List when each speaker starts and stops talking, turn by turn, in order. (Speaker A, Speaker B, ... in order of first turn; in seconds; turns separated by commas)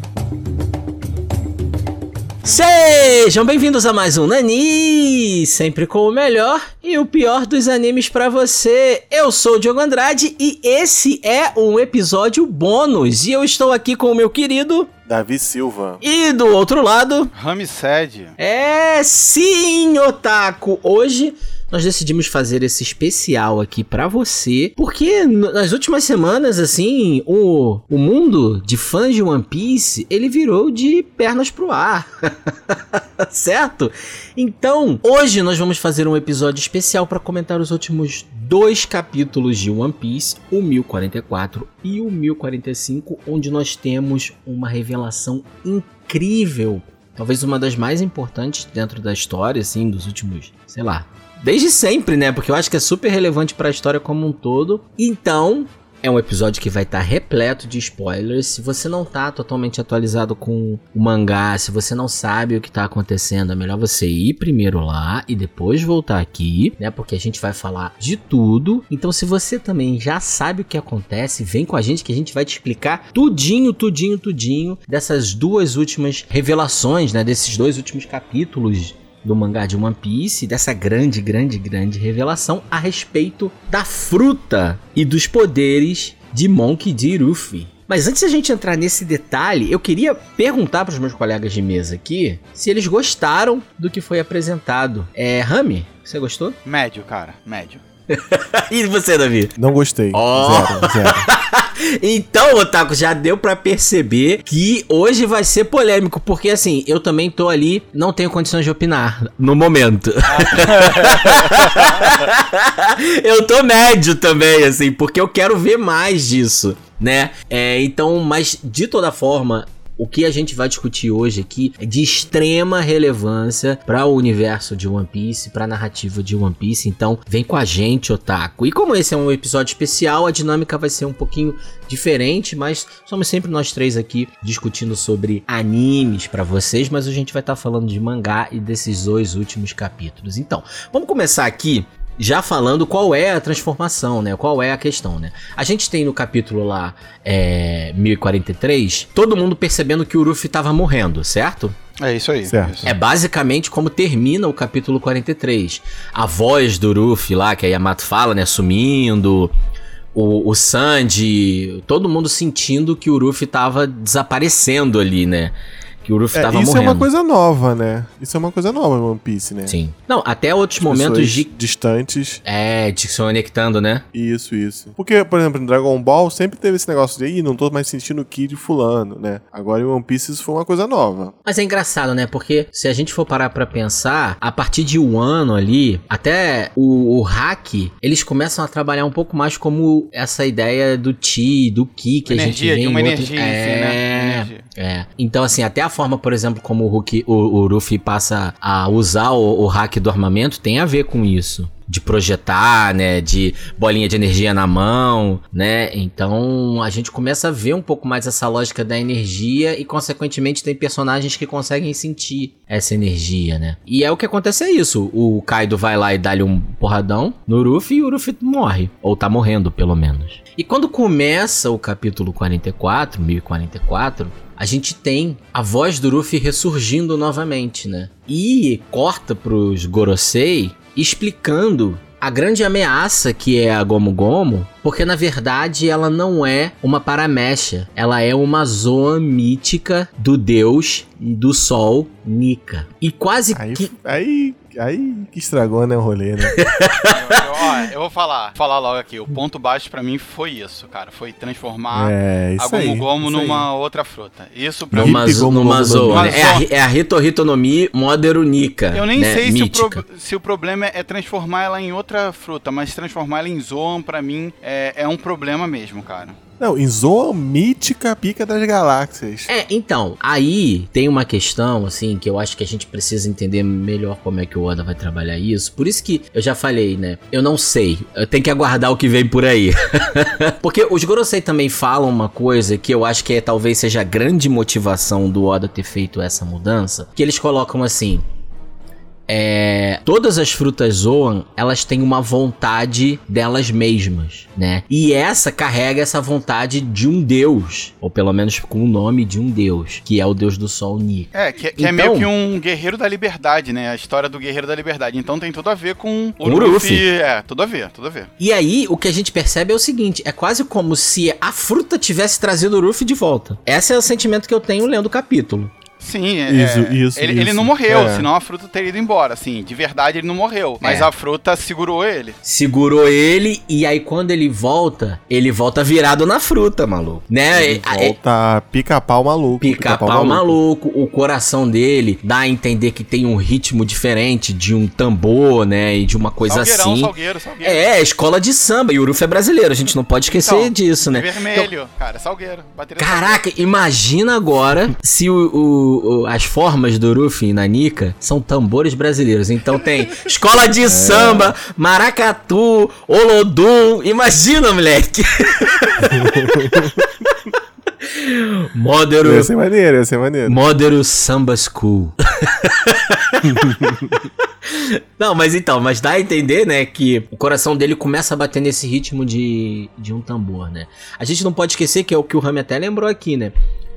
Speaker A: 2.4-14.9, Speaker B: 15.1-16.0, Speaker A: 16.0-17.3, Speaker C: 17.4-18.4, Speaker A: 18.4-96.6, Speaker C: 96.7-97.8, Speaker A: 98.1-99.6, Speaker B: 99.6-101.3, Speaker A: 100.1-151.8, Speaker C: 110.3-112.2, Speaker C: 152.0-152.9, Speaker B: 152.4-152.9, Speaker A: 152.8-159.5, Speaker A: 160.1-167.1, Speaker B: 166.3-169.8, Speaker A: 169.7-171.5, Speaker B: 170.8-172.4, Speaker A: 172.4-174.0, Speaker B: 174.1-181.3, Speaker A: 181.4-243.9, Speaker C: 192.3-194.7, Speaker B: 243.5-246.6, Speaker A: 246.4-247.4, Speaker C: 247.1-255.3, Speaker B: 251.9-253.7, Speaker B: 254.9-256.6, Speaker A: 254.9-260.0, Speaker C: 256.1-256.7, Speaker C: 258.9-266.4, Speaker B: 266.6-269.5, Speaker A: 269.5-288.2, Speaker A: 289.3-302.3, Speaker C: 301.3-308.3, Speaker A: 306.4-307.1, Speaker A: 308.4-315.7, Speaker C: 316.0-322.4, Speaker B: 316.5-318.3, Speaker A: 320.8-321.1, Speaker A: 322.4-328.2, Speaker B: 327.5-330.6, Speaker A: 329.6-337.1, Speaker C: 336.5-337.9, Speaker A: 337.6-341.7, Speaker C: 340.3-343.4, Speaker A: 343.0-357.4, Speaker B: 350.8-351.6, Speaker B: 356.0-356.9, Speaker A: 358.0-359.5, Speaker B: 359.2-360.6, Speaker A: 360.5-364.0, Speaker B: 363.4-364.2, Speaker A: 364.6-373.5